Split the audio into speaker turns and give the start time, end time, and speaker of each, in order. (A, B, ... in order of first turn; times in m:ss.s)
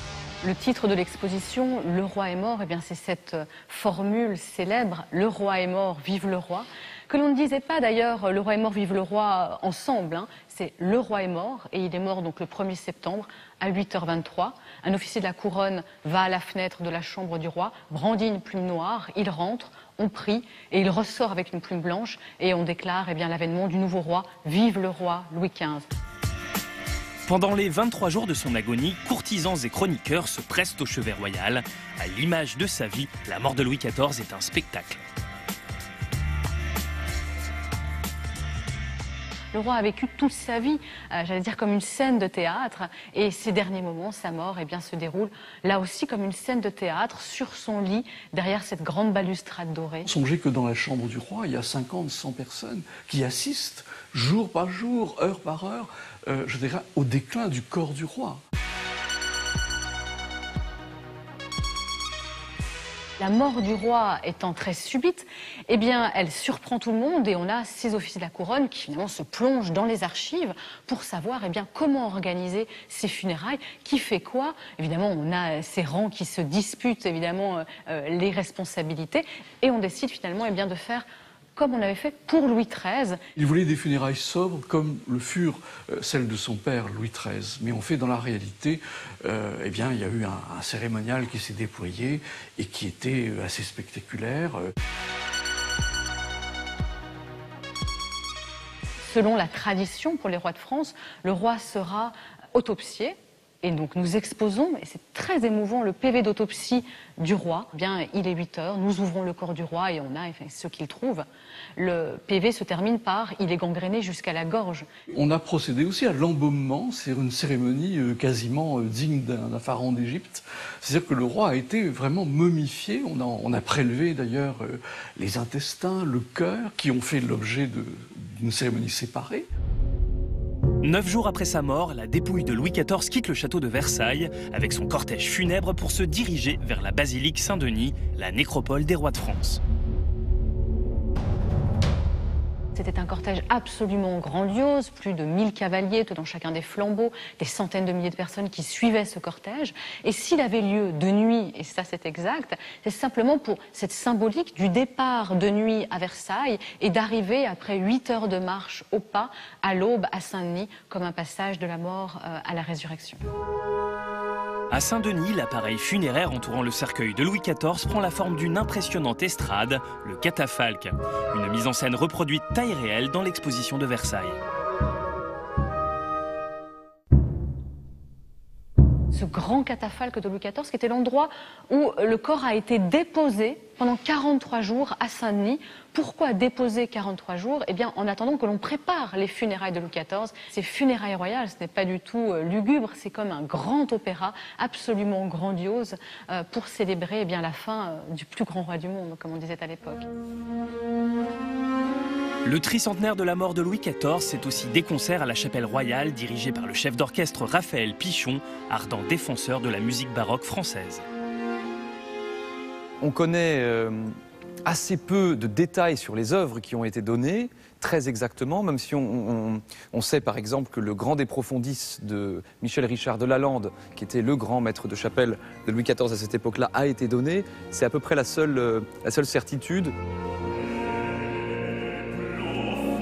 0:00.4-0:25.9 A
0:27.2-0:35.0 B
0:39.5-0:50.1 A
0:50.1-0:58.4 C
1:03.2-1:21.0 A
1:21.6-1:23.2 A
1:23.4-1:34.7 C
1:39.0-1:51.3 A
1:51.8-1:54.9 A
1:55.2-2:09.5 C
2:10.8-2:19.6 B
2:22.8-2:43.2 A
2:44.7-2:54.4 B
2:59.1-3:20.1 A
3:22.4-3:31.0 B
3:33.0-3:49.9 D